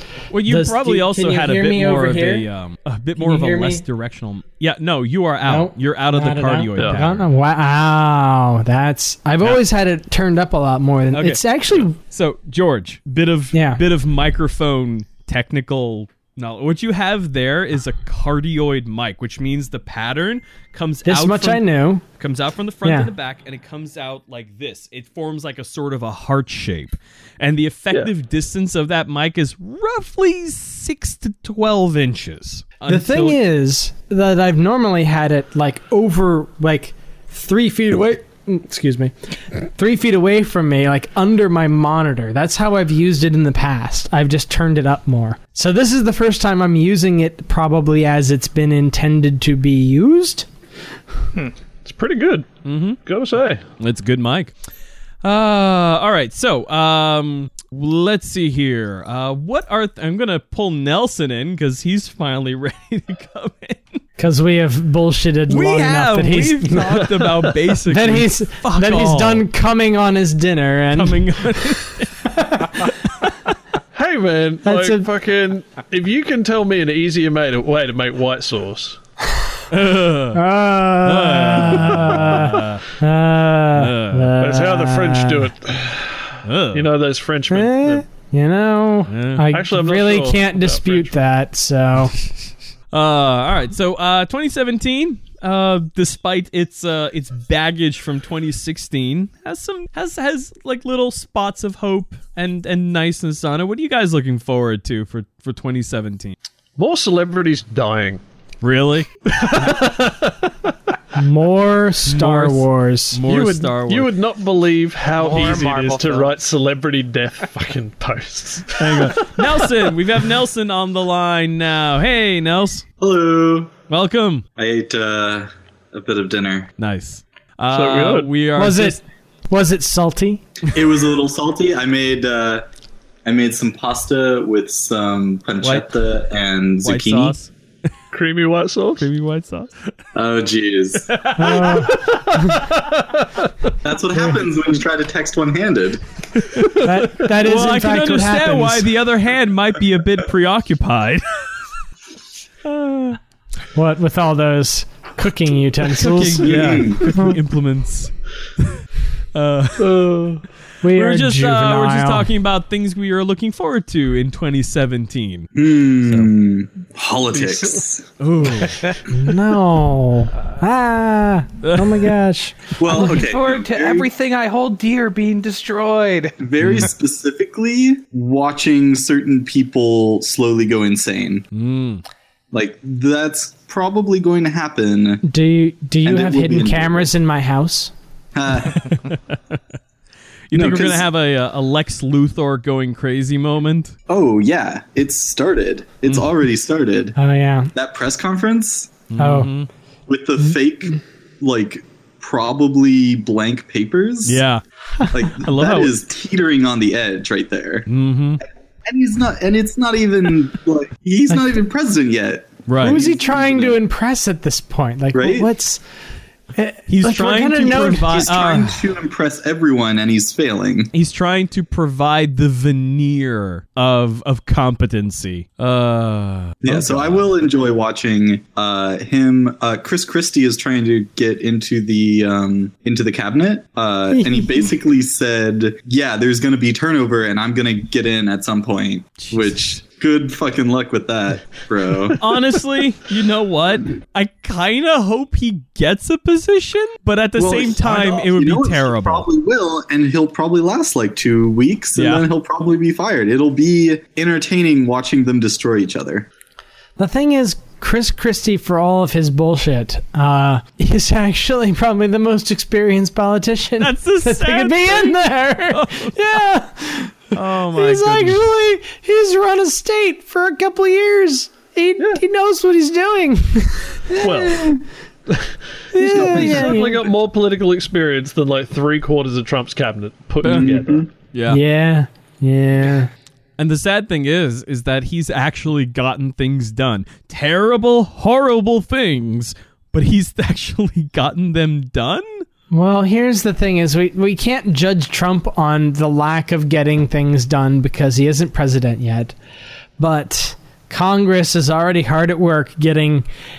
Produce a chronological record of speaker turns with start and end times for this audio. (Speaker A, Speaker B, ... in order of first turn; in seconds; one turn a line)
Speaker A: 0.3-7.3
Speaker B: 0.4-2.5
Speaker B: 3.2-3.8
Speaker B: 5.4-12.0
Speaker C: 6.8-7.0
Speaker A: 11.1-33.4
Speaker B: 13.5-13.8
Speaker B: 21.1-22.0
Speaker B: 22.8-23.1
Speaker B: 32.9-50.5
Speaker C: 51.8-53.6
Speaker A: 52.6-53.0
Speaker A: 53.8-54.5
Speaker A: 55.2-64.0
Speaker B: 64.2-67.2
Speaker A: 65.5-69.5
Speaker C: 67.1-67.6
Speaker B: 67.8-71.6
Speaker A: 70.9-73.5
Speaker B: 72.2-72.9
Speaker C: 73.9-79.0
Speaker B: 74.6-75.1
Speaker A: 79.7-80.4
Speaker B: 80.3-85.5
Speaker A: 81.0-82.8
Speaker A: 83.7-84.4
Speaker C: 84.4-88.0
Speaker A: 86.4-86.9
Speaker B: 87.5-92.2
Speaker A: 89.1-89.5
Speaker C: 89.5-91.1
Speaker A: 92.9-106.3
Speaker C: 106.8-108.2
Speaker A: 108.6-109.8
Speaker C: 109.4-110.7
Speaker B: 111.1-113.2
Speaker A: 112.0-114.1
Speaker C: 113.2-119.9
Speaker D: 115.2-116.3
Speaker A: 118.8-122.8
Speaker E: 123.0-123.8
Speaker A: 123.9-124.5
Speaker E: 124.6-126.7
Speaker A: 126.8-129.0
Speaker C: 127.7-128.3
Speaker B: 128.6-130.4
Speaker E: 130.7-132.6
Speaker E: 133.2-137.3
Speaker A: 135.6-135.9
Speaker A: 136.8-137.5
Speaker C: 138.1-139.1
Speaker A: 139.0-139.7
Speaker E: 140.1-141.2
Speaker A: 141.1-141.9
Speaker B: 141.3-142.7
Speaker C: 141.7-143.2
Speaker E: 143.8-146.0
Speaker A: 146.3-151.4
Speaker B: 146.8-148.9
Speaker A: 152.6-153.2
Speaker B: 153.7-157.3
Speaker A: 155.8-158.8
Speaker E: 156.4-157.2
Speaker A: 159.3-160.3
Speaker C: 159.8-160.4
Speaker B: 160.8-162.3
Speaker A: 160.9-165.5
Speaker E: 165.5-168.1
Speaker A: 166.0-166.3
Speaker C: 167.3-167.7
Speaker A: 168.2-168.9
Speaker B: 169.1-173.0
Speaker A: 171.6-172.1
Speaker E: 172.8-174.1
Speaker D: 172.9-176.4
Speaker E: 176.4-181.5
Speaker A: 176.6-176.9
Speaker A: 181.5-182.0
Speaker E: 182.5-185.2
Speaker B: 185.2-187.9
Speaker E: 186.0-187.1
Speaker E: 188.3-189.0
Speaker A: 188.9-189.6
Speaker A: 190.5-193.9
Speaker E: 190.5-191.0
Speaker E: 194.1-197.2
Speaker B: 197.2-197.7
Speaker E: 197.7-199.1
Speaker A: 199.1-199.7
Speaker B: 199.2-199.5
Speaker E: 200.1-204.4
Speaker A: 204.2-204.6
Speaker E: 205.1-207.9
Speaker A: 205.3-205.9
Speaker A: 207.9-208.4
Speaker E: 208.8-213.8
Speaker A: 212.7-213.0
Speaker B: 212.8-215.8
Speaker E: 215.1-215.5
Speaker B: 216.6-218.4
Speaker A: 216.9-218.8
Speaker E: 217.9-220.9
Speaker A: 220.9-227.2
Speaker E: 226.6-242.2
Speaker B: 234.1-234.6
Speaker A: 239.2-239.6
Speaker A: 242.2-249.3
Speaker E: 247.4-256.3
Speaker A: 251.9-252.2
Speaker B: 257.0-274.8
Speaker A: 263.8-266.1
Speaker A: 267.3-268.4
Speaker C: 274.2-281.0
Speaker B: 275.9-277.0
Speaker A: 276.2-276.7
Speaker A: 280.4-280.7
Speaker E: 280.4-281.1
Speaker A: 281.3-281.6
Speaker B: 281.5-283.1
Speaker A: 283.6-292.4
Speaker B: 292.7-299.3
Speaker B: 300.0-303.3